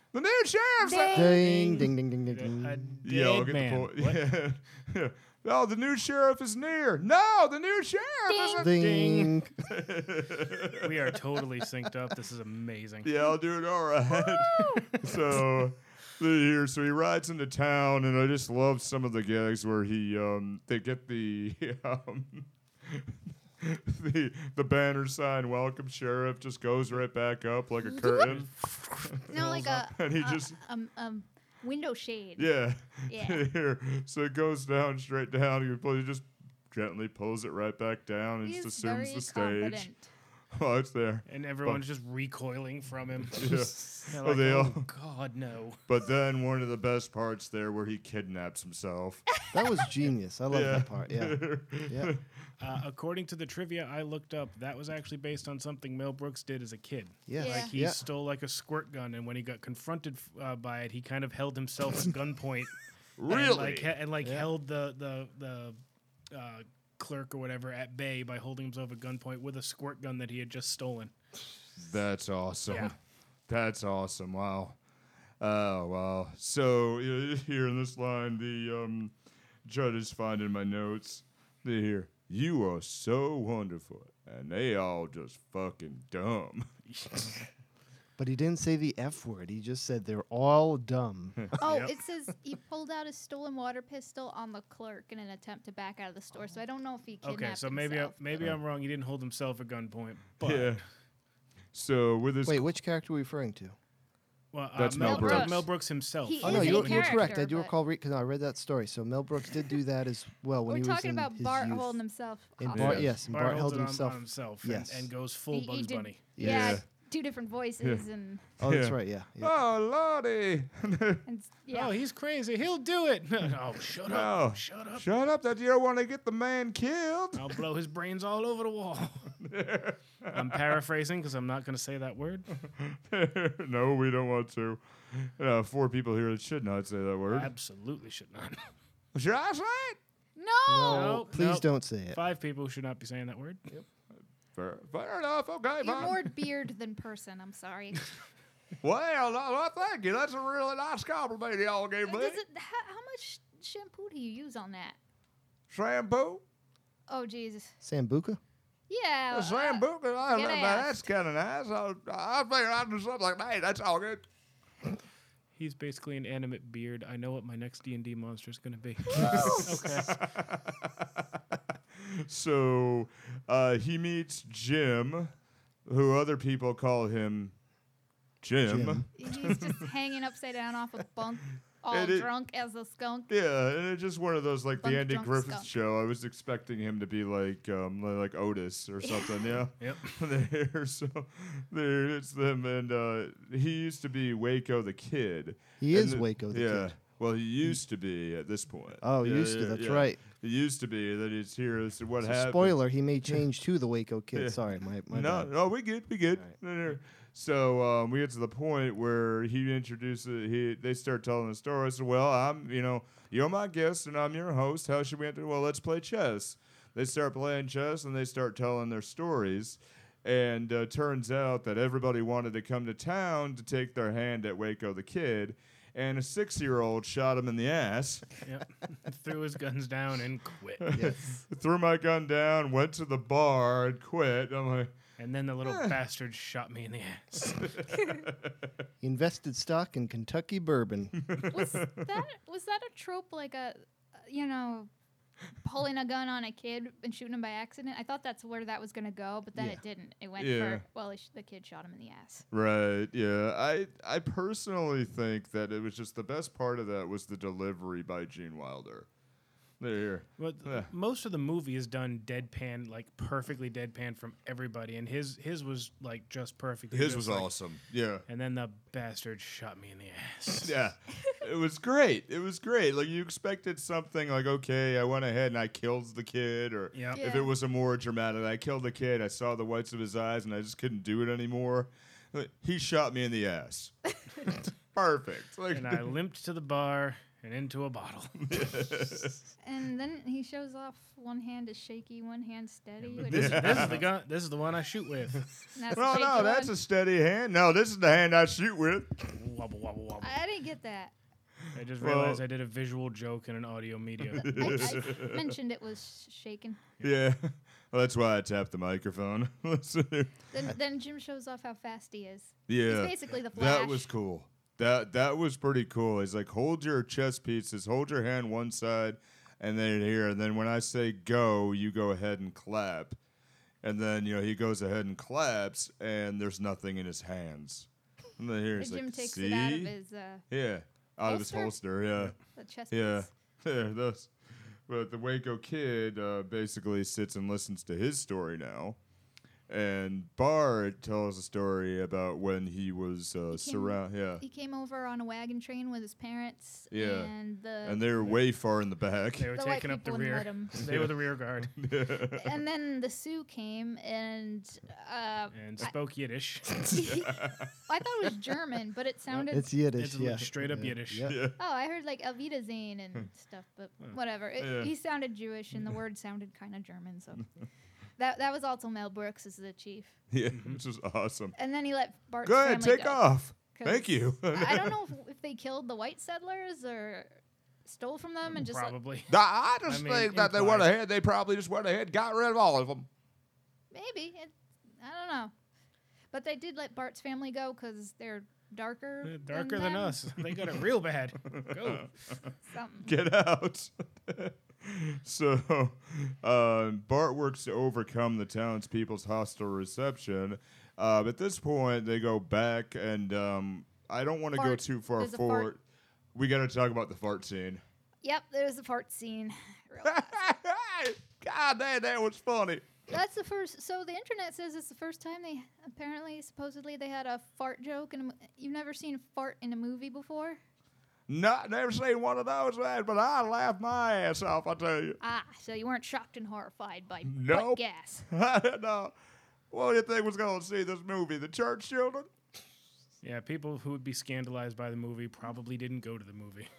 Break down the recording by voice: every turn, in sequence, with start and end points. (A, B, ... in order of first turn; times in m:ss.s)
0:00.1-0:01.4 A
0:00.8-0:01.8 B
0:01.1-0:03.0 C
0:02.3-0:04.2 D
0:03.0-0:08.7 A
0:08.3-0:08.7 B
0:08.6-0:09.5 C
0:08.6-0:09.3 D
0:09.6-0:11.1 A
0:10.8-0:13.1 D
0:13.0-0:30.6 A
0:14.1-0:15.1 B
0:27.8-0:28.4 B
0:28.3-0:29.0 D
0:29.2-0:32.5 B
0:32.4-0:39.9 A
0:33.1-0:33.5 B
0:38.4-0:40.1 B
0:40.5-0:41.8 A
0:41.3-0:45.8 D
0:43.3-0:44.9 A
0:45.9-0:49.3 A
0:49.5-0:52.1 C
0:50.5-0:52.3 A
0:52.6-1:11.1 D
0:57.3-0:58.0 C
0:57.4-0:57.7 B
1:03.2-1:03.9 A
1:04.2-1:04.5 C
1:11.8-1:13.0 A
1:13.5-1:14.8 A
1:15.4-1:19.1 A
1:19.6-1:26.7 A
1:26.9-1:27.3 D
1:28.2-1:31.5 C
1:31.6-1:38.4 B
1:31.6-1:31.9 D
1:37.2-1:40.8 D
1:40.4-1:40.8 A
1:41.7-1:42.6 A
1:42.4-1:43.8 C
1:44.5-1:47.3 D
1:44.8-1:45.7 A
1:45.0-1:45.7 B
1:46.2-1:47.7 B
1:46.4-1:52.0 C
1:50.7-1:53.1 B
1:52.6-1:55.1 C
1:52.7-1:53.2 A
1:53.3-1:56.2 D
1:55.5-1:58.4 B
1:56.4-1:56.8 C
1:56.4-1:56.8 A
1:58.6-1:59.5 C
1:58.6-2:01.2 A
2:01.3-2:02.0 B
2:01.7-2:05.1 D
2:04.0-2:07.6 A
2:07.4-2:09.3 D
2:09.4-2:10.7 A
2:10.3-2:12.5 D
2:12.7-2:17.5 A
2:17.3-2:18.7 D
2:19.2-2:20.0 A
2:20.4-2:21.2 B
2:20.7-2:22.2 C
2:20.9-2:23.7 D
2:24.6-2:26.2 A
2:25.8-2:28.1 B
2:28.8-2:32.4 A
2:32.1-2:35.0 B
2:35.7-2:36.4 A
2:37.1-2:37.7 B
2:37.8-2:38.4 C
2:38.9-2:41.0 B
2:39.3-2:44.2 A
2:45.6-2:50.2 D
2:49.1-2:49.7 B
2:49.3-2:51.1 A
2:52.0-2:55.3 A
2:55.9-2:57.5 A
2:58.4-2:59.9 A
2:58.6-2:59.1 C
2:59.2-3:03.3 B
3:01.9-3:02.3 A
3:03.3-3:22.8 A
3:04.8-3:05.7 B
3:09.0-3:09.5 B
3:09.8-3:10.2 D
3:15.8-3:17.0 C
3:19.0-3:20.2 C
3:22.2-3:25.5 C
3:24.3-3:24.6 A
3:25.1-3:48.3 A
3:48.4-3:50.9 D
3:50.8-3:54.9 A
3:50.9-3:51.2 C
3:55.2-3:57.8 D
3:55.6-3:56.0 A
3:57.6-3:58.5 A
3:57.9-3:58.2 B
3:59.0-4:01.4 C
4:01.2-4:02.1 A
4:01.5-4:04.9 B
4:05.6-4:12.4 B
4:09.6-4:09.8 C
4:10.4-4:10.8 A
4:12.5-4:19.1 A
4:19.8-4:20.9 A
4:20.4-4:27.5 D
4:26.9-4:28.2 A
4:28.3-4:30.8 D
4:30.6-4:46.1 A
4:36.9-4:37.2 D
4:37.1-4:37.5 B
4:45.7-4:48.7 D
4:48.5-4:49.4 A
4:49.6-4:54.0 B
4:53.2-4:55.5 D
4:53.2-4:54.0 A
4:55.7-4:56.7 B
4:55.9-4:59.3 A
4:59.3-5:00.4 D
5:00.2-5:01.1 B
5:01.7-5:05.0 D
5:02.0-5:02.4 A
5:04.2-5:05.5 A
5:04.4-5:06.8 B
5:07.0-5:10.3 A
5:10.5-5:14.1 B
5:12.7-5:23.2 A
5:23.8-5:29.9 A
5:28.8-5:30.4 B
5:30.5-5:32.4 A
5:31.2-5:31.8 B
5:32.6-5:33.3 B
5:32.9-5:34.3 A
5:34.9-5:39.0 A
5:39.7-5:44.4 A
5:43.5-5:48.0 B
5:46.9-5:47.3 A
5:47.8-5:49.5 A
5:49.4-5:51.7 D
5:49.5-5:50.8 B
5:50.8-5:52.6 A
5:52.3-5:55.9 B
5:55.5-5:57.0 D
5:56.9-5:59.7 B
5:57.0-5:57.7 A
5:59.5-6:01.4 C
6:00.0-6:01.4 D
6:01.2-6:01.6 A
6:01.6-6:07.5 B
6:04.6-6:04.9 A
6:08.2-6:10.1 B
6:10.3-6:11.6 A
6:10.5-6:10.8 D
6:11.6-6:18.9 B
6:12.4-6:15.0 A
6:18.5-6:19.3 D
6:19.3-6:23.1 A
6:19.9-6:20.9 D
6:23.9-6:25.5 B
6:26.3-6:30.2 B
6:29.2-6:32.4 D
6:31.5-6:32.3 A
6:32.6-6:33.2 B
6:33.0-6:45.8 A
6:44.6-6:45.7 B
6:46.4-6:47.8 A
6:48.2-6:50.4 B
6:50.0-6:52.9 A
6:53.1-7:00.6 B
7:01.3-7:05.2 A
7:05.2-7:08.3 B
7:07.3-7:09.1 A
7:09.7-7:12.3 A
7:13.2-7:16.7 D